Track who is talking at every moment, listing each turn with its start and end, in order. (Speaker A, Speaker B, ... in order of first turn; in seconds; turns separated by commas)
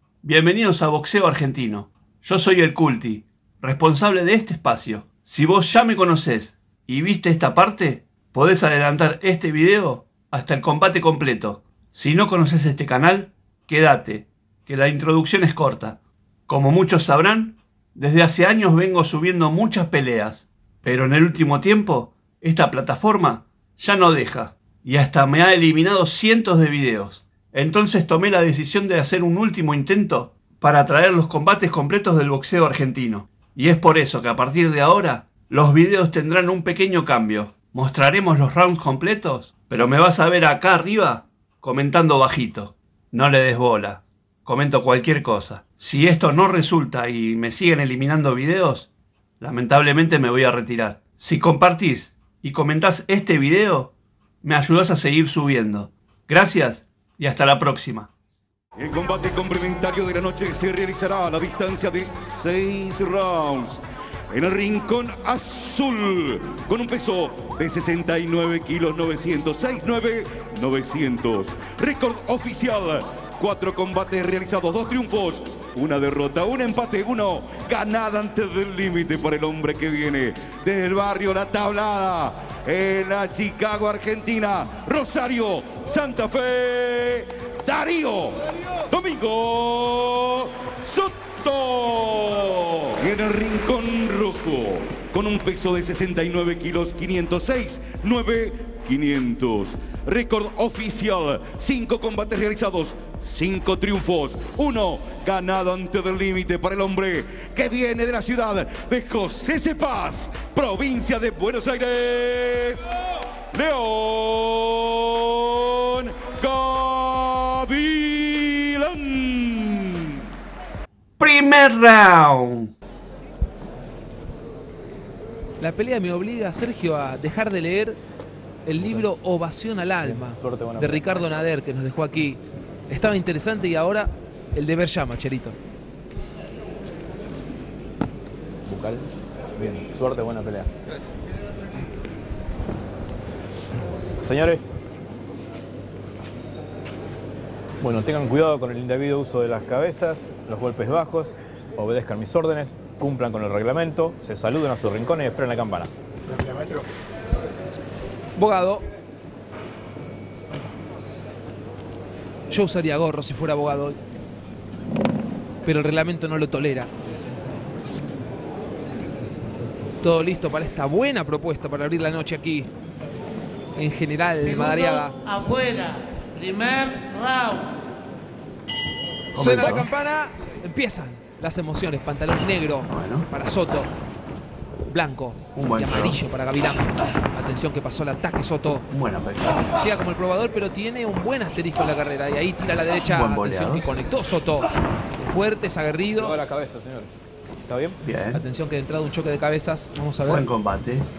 Speaker A: 0.2-48.9, Speaker A: 49.4-53.9, Speaker A: 54.4-58.1, Speaker B: 58.8-112.9, Speaker B: 113.5-120.1, Speaker A: 121.2-122.7, Speaker C: 125.6-128.0, Speaker C: 128.7-135.6, Speaker D: 130.0-131.2, Speaker D: 138.7-139.1, Speaker D: 139.6-140.7, Speaker D: 144.2-144.7, Speaker D: 147.8-155.9, Speaker C: 158.4-158.8, Speaker C: 162.5-164.0, Speaker C: 165.7-166.9, Speaker C: 170.0-172.7, Speaker C: 173.8-175.2, Speaker A: 179.3-179.9, Speaker C: 179.3-183.9, Speaker A: 182.9-183.3, Speaker C: 184.9-188.9, Speaker A: 185.6-186.2, Speaker A: 188.9-189.8, Speaker C: 189.8-196.4, Speaker A: 193.1-193.9, Speaker D: 196.2-197.1, Speaker A: 198.0-198.4, Speaker C: 198.3-200.4, Speaker A: 200.2-201.1